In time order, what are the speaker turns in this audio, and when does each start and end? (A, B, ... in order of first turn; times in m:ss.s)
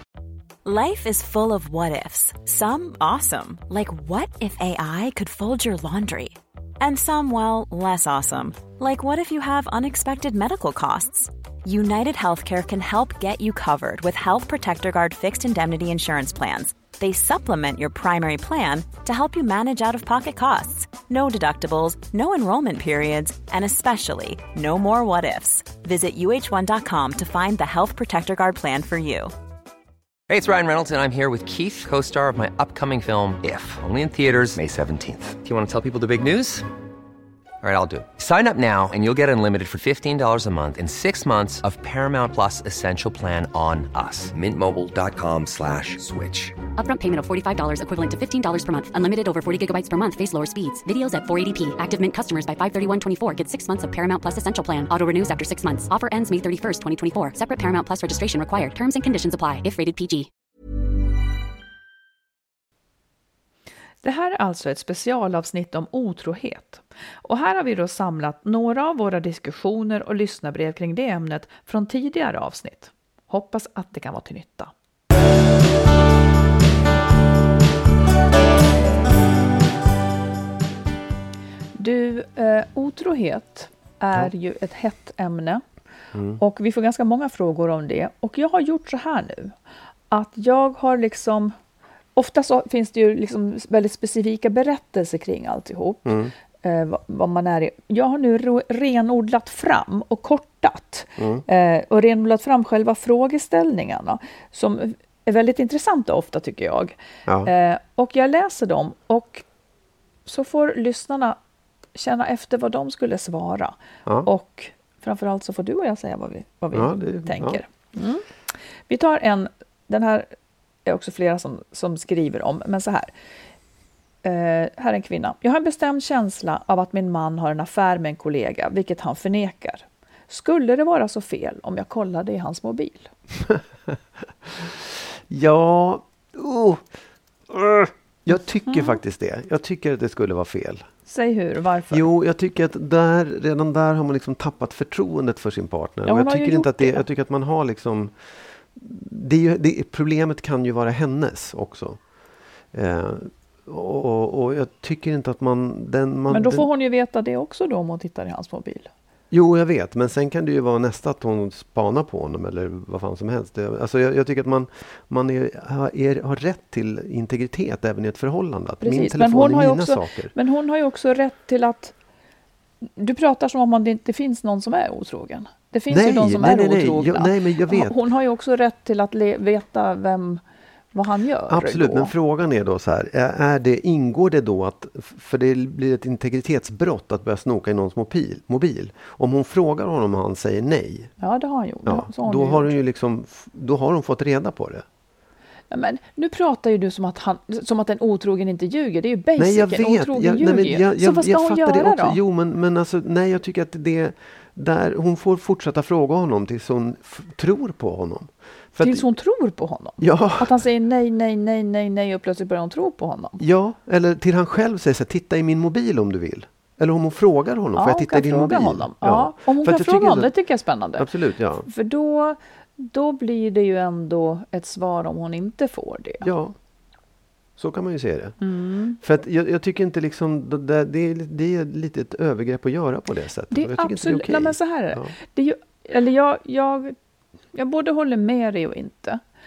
0:00.6-0:29.3 A
0:30.3-0:36.7 B
0:37.6-0:46.6 B
0:46.7-1:00.3 C
1:04.0-1:14.7 D
1:21.8-1:25.6 D
1:26.1-1:26.4 E
1:26.4-1:29.6 D
1:30.1-1:31.6 D
1:32.2-1:49.4 D
1:36.0-1:36.3 E
1:41.2-1:41.4 E
1:47.3-1:47.5 E
1:50.3-1:51.4 D
1:52.0-1:58.2 D
1:56.7-1:57.6 E
1:58.9-2:00.3 D
2:00.9-2:03.1 D
2:04.2-2:13.1 D
2:13.5-2:16.8 E
2:17.5-2:20.9 E
2:18.7-2:19.0 D
2:21.1-2:22.1 D
2:21.9-2:28.2 E
2:26.1-2:27.0 D
2:28.7-2:32.0 E
2:32.7-2:36.7 E
2:36.3-2:38.9 D
2:39.3-2:50.3 E
2:48.8-2:51.9 D
2:53.0-3:00.4 D
2:55.9-2:58.0 E
3:00.9-3:02.1 D
3:01.5-3:11.1 E
3:11.2-3:12.7 D
3:11.8-3:14.8 E
3:15.7-3:22.2 D
3:19.4-3:29.1 E
3:28.8-3:33.4 D
3:30.0-3:30.6 E
3:33.4-3:40.3 E
3:37.8-3:41.1 D
3:41.0-3:41.7 E
3:41.7-3:46.3 D
3:46.2-3:46.6 E
3:47.6-3:48.4 E
3:48.4-3:49.0 D
3:49.0-3:55.1 E
3:53.5-3:57.0 D
3:57.5-3:59.2 D